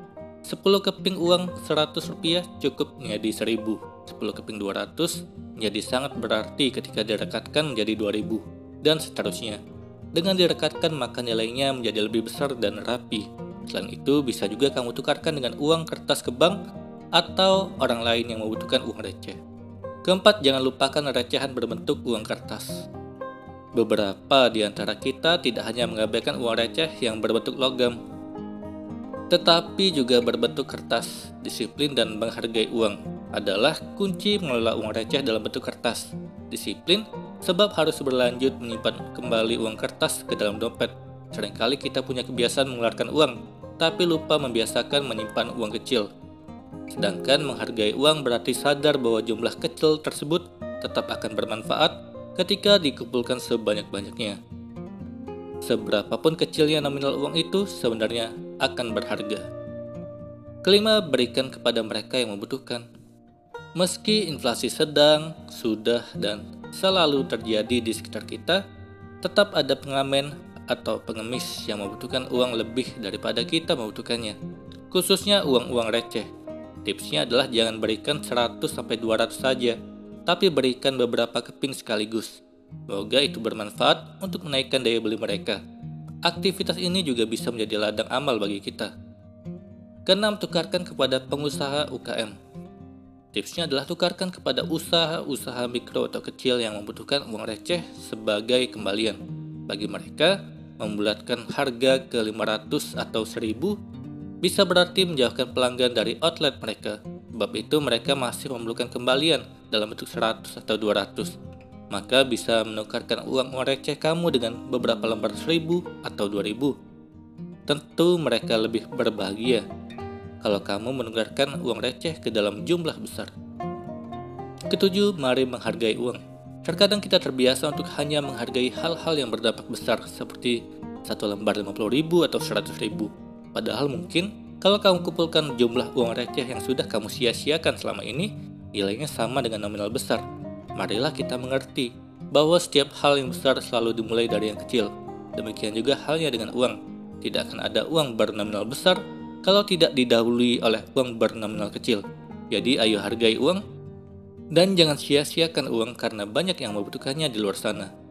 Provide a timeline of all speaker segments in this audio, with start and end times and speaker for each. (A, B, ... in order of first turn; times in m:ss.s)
0:00.4-0:09.6 A
0:10.1-0:16.6 A
0:17.2-0:19.4 A
0:20.0-0:22.7 A
0:23.8-0:27.9 A
0:29.3-0:46.1 A
0:46.9-0:54.4 A
0:55.6-0:59.4 A
1:00.6-1:02.8 A
1:03.8-1:08.6 A
1:09.2-1:14.4 A
1:14.9-1:16.3 A
1:16.8-1:19.8 A
1:20.3-1:25.6 A
1:26.2-1:28.9 A
1:30.1-1:32.3 A
1:33.3-1:43.7 A
1:44.4-1:51.3 A
1:51.9-1:56.8 A
1:57.7-1:59.6 A
2:00.4-2:03.3 A
2:04.7-2:20.2 A
2:20.8-2:33.6 A
2:34.6-2:37.9 A